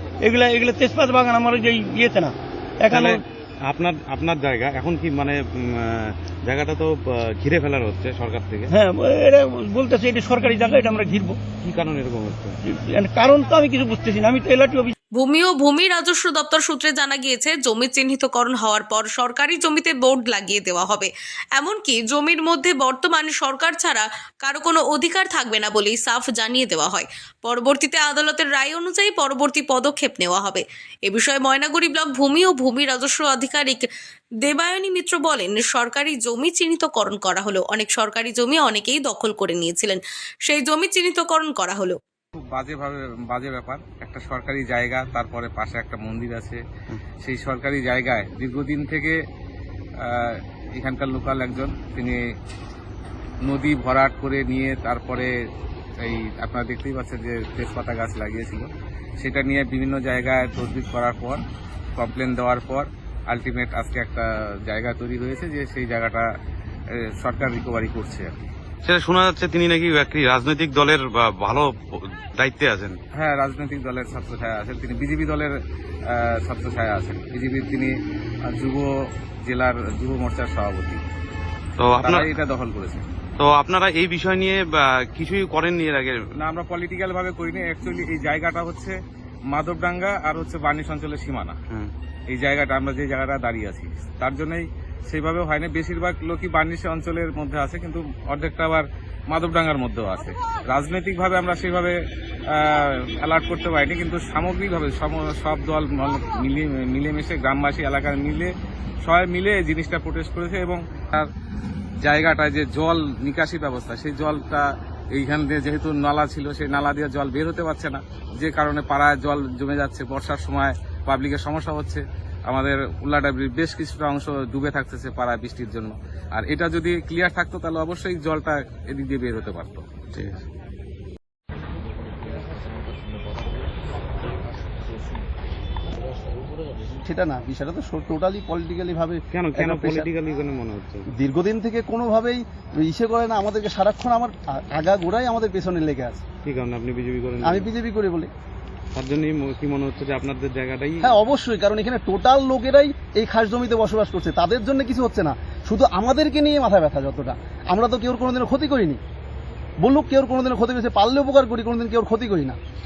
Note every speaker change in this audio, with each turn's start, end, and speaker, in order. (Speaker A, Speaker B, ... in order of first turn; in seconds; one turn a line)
Speaker A: 0.2-3.2
Speaker B: 2.9-8.7
Speaker A: 8.7-11.4
Speaker B: 11.6-12.6
Speaker A: 12.7-14.9
Speaker C: 15.2-33.9
Speaker C: 34.4-42.0
Speaker D: 42.4-46.6
Speaker D: 47.2-49.2
Speaker D: 50.0-52.2
Speaker D: 53.5-55.3
Speaker D: 56.0-61.4
Speaker D: 62.0-66.3
Speaker D: 67.0-68.3
Speaker B: 68.8-73.0
Speaker D: 73.2-75.5
Speaker D: 76.1-78.0
Speaker D: 78.5-78.9
Speaker D: 79.5-81.0
Speaker B: 81.8-82.3
Speaker D: 82.0-83.0
Speaker B: 83.4-86.2
Speaker D: 86.4-89.0
Speaker D: 89.5-91.6
Speaker D: 92.3-102.0
Speaker D: 102.5-108.5
Speaker D: 109.0-111.3
Speaker D: 112.0-129.8
Speaker B: 130.1-130.4
Speaker E: 137.1-140.1
Speaker B: 139.3-141.1
Speaker E: 141.1-146.2
Speaker B: 146.4-147.7
Speaker E: 147.4-148.3
Speaker B: 148.9-151.1
Speaker E: 151.0-159.0
Speaker E: 159.8-162.6